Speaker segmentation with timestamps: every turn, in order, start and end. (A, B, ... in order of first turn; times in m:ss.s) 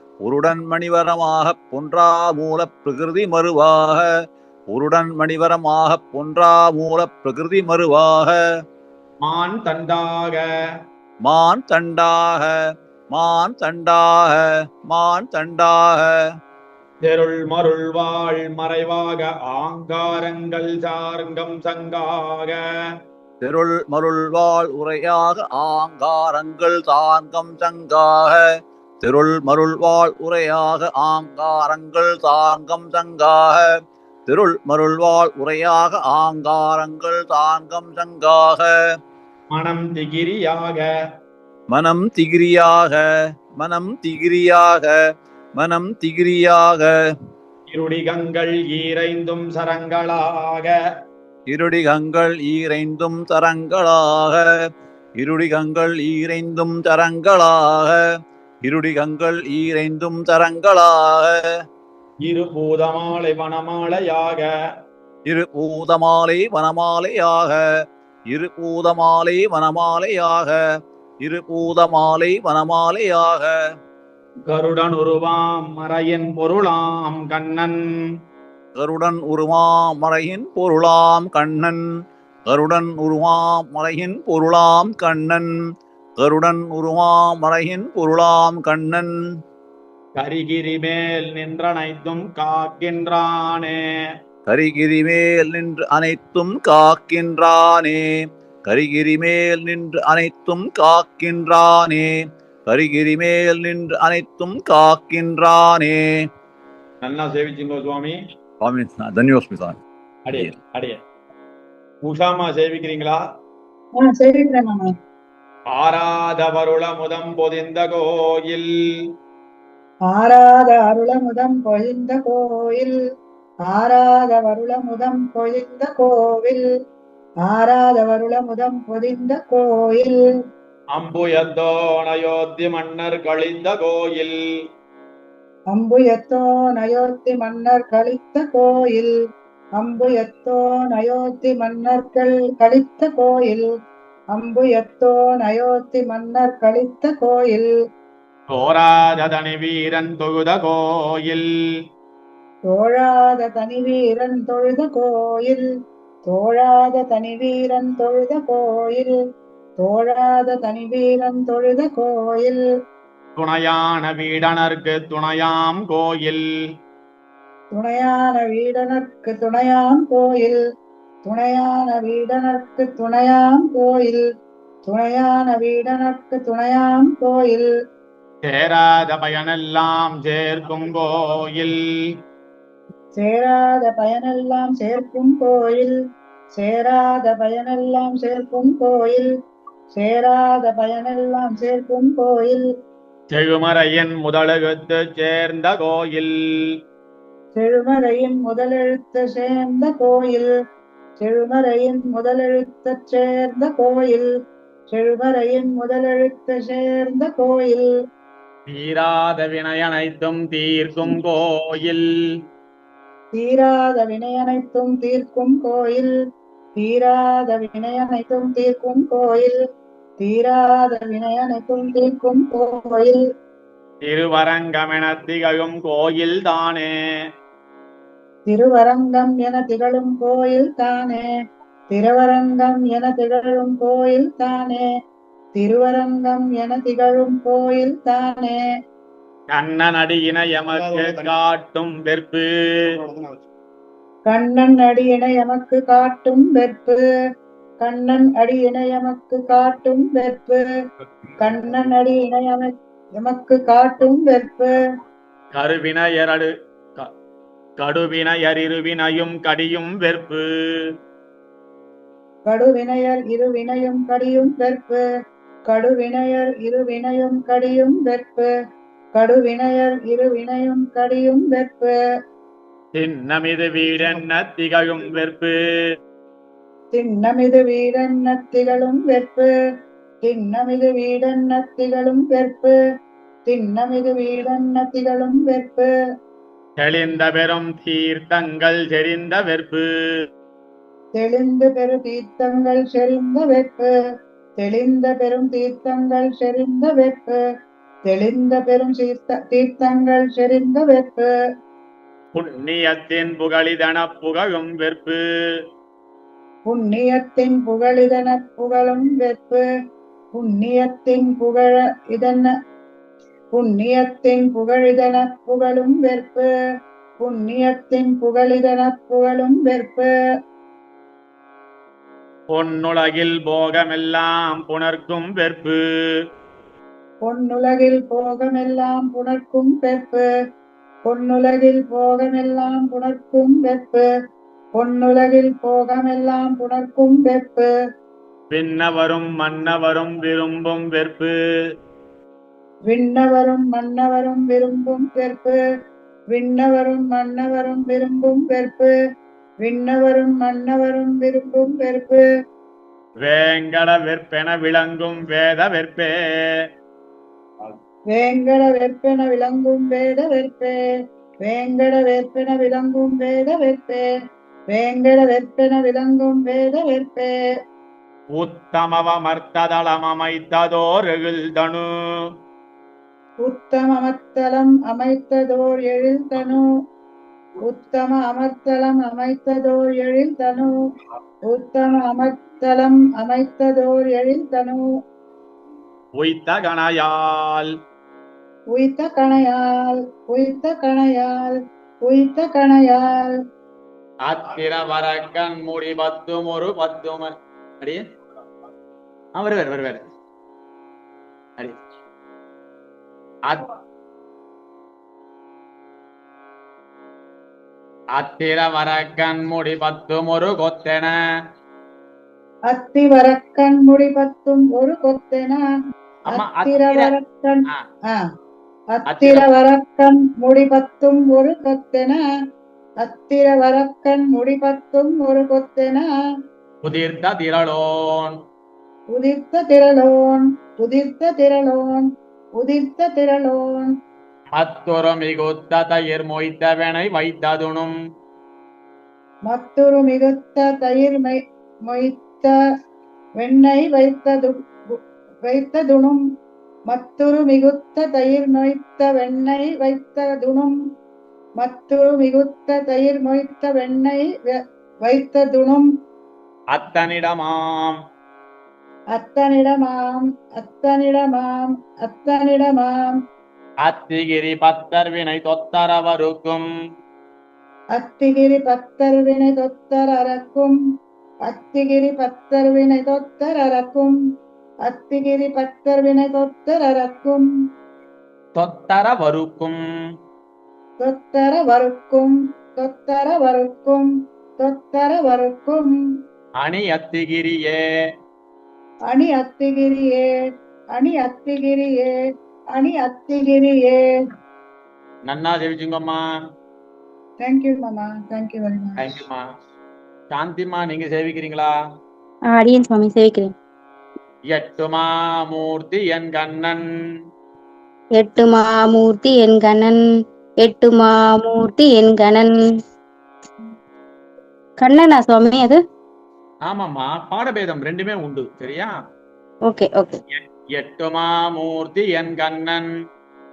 0:00.2-0:08.4 A
0:09.2-0:10.4 B
0:11.2-0:16.3 A
0:17.0-0:22.6 B
0:23.4-0:39.0 A
0:39.5-0:40.9 B
0:41.7-0:45.0 A
0:45.6-0:46.9 A
0:47.7-0:50.8 B
0:51.5-0:58.0 A
0:58.6-1:01.4 A
1:02.3-1:04.5 B
1:05.2-1:07.6 A
1:08.3-1:10.6 A
1:11.2-1:13.6 A
1:14.5-1:17.8 B
1:18.8-1:21.8 A
1:22.5-1:25.5 A
1:26.2-1:29.1 A
1:30.2-1:33.8 B
1:34.5-1:46.2 A
1:47.0-1:48.2 B
1:48.6-1:49.8 A
1:50.3-1:51.0 B
1:52.1-1:53.2 B
1:54.0-1:54.9 C
1:55.7-1:58.7 B
2:00.1-2:03.0 C
2:03.7-2:06.6 C
2:07.4-2:10.2 C
2:10.9-2:14.4 B
2:15.7-2:19.1 C
2:19.8-2:23.7 C
2:24.3-2:27.7 C
2:28.5-2:31.5 B
2:32.7-2:35.6 C
2:36.3-2:39.1 C
2:39.8-2:42.6 C
2:43.4-2:46.4 B
2:47.7-2:50.6 C
2:51.2-2:54.2 C
2:54.9-2:57.7 C
2:58.4-3:01.8 B
3:03.2-3:06.0 C
3:06.6-3:09.3 C
3:10.0-3:12.6 C
3:13.3-3:16.3 B
3:17.6-3:20.5 C
3:21.2-3:24.3 C
3:24.9-3:27.9 C
3:28.7-3:32.1 B
3:33.3-3:36.1 C
3:36.8-3:39.6 C
3:40.2-3:43.2 C
3:44.1-3:46.9 B
3:48.5-3:51.2 C
3:51.9-3:54.8 C
3:55.6-3:58.6 C
3:59.5-4:02.5 B
4:04.3-4:07.0 C
4:07.8-4:10.6 C
4:11.4-4:14.8 C
4:15.5-4:17.1 B
4:17.8-4:20.4 B
4:22.5-4:25.0 C
4:25.7-4:28.5 C
4:29.2-4:31.9 C
4:33.0-4:35.6 B
4:36.9-4:39.5 C
4:40.2-4:42.8 C
4:43.5-4:45.9 C
4:46.8-4:49.9 B
4:51.2-4:53.9 C
4:54.6-4:57.4 C
4:58.1-5:01.3 C
5:02.3-5:05.2 B
5:06.7-5:09.6 C
5:10.3-5:12.5 C
5:13.5-5:16.5 C
5:17.2-5:20.1 C
5:22.5-5:25.8 B
5:27.2-5:30.3 C
5:31.0-5:34.0 C
5:34.8-5:37.7 C
5:38.5-5:41.3 B
5:42.9-5:45.6 C
5:46.3-5:48.9 C
5:49.6-5:52.2 C
5:53.2-5:56.2 B
5:58.1-6:00.8 C
6:01.4-6:04.1 C
6:04.7-6:07.3 C
6:08.4-6:11.8 B
6:13.4-6:16.6 C
6:17.6-6:20.7 C
6:21.5-6:24.8 C
6:26.2-6:27.7 B
6:28.7-6:33.4 C
6:34.2-6:38.0 B
6:39.4-6:40.0 B
6:48.2-6:51.1 B
6:52.7-6:55.6 C
6:56.3-6:57.1 B
6:56.3-6:58.2 C
6:58.9-7:02.2 C
6:59.1-6:59.5 B
7:03.0-7:06.1 C
7:06.8-7:08.4 B
7:09.1-7:14.0 C
7:14.6-7:17.9 B
7:19.5-7:22.5 C
7:23.4-7:26.2 C
7:26.9-7:30.8 C
7:31.6-7:35.9 C
7:36.7-7:38.0 B
7:39.1-7:43.2 C
7:43.8-7:46.6 B
7:48.0-7:50.8 C
7:51.5-7:54.2 C
7:54.9-7:57.5 C
7:58.6-7:59.8 B
8:01.0-8:05.9 C
8:06.6-8:07.8 B
8:09.1-8:10.3 C
8:10.9-8:12.1 C
8:12.7-8:14.0 C
8:15.3-8:16.2 B
8:17.4-8:19.1 C
8:19.0-8:19.4 B
8:20.3-8:21.7 B
8:22.4-8:23.5 D
8:24.5-8:26.8 B
8:28.1-8:30.0 D
8:30.6-8:32.5 D
8:34.8-8:35.8 D
8:36.7-8:38.9 B
8:39.6-8:40.2 D
8:40.7-8:42.9 B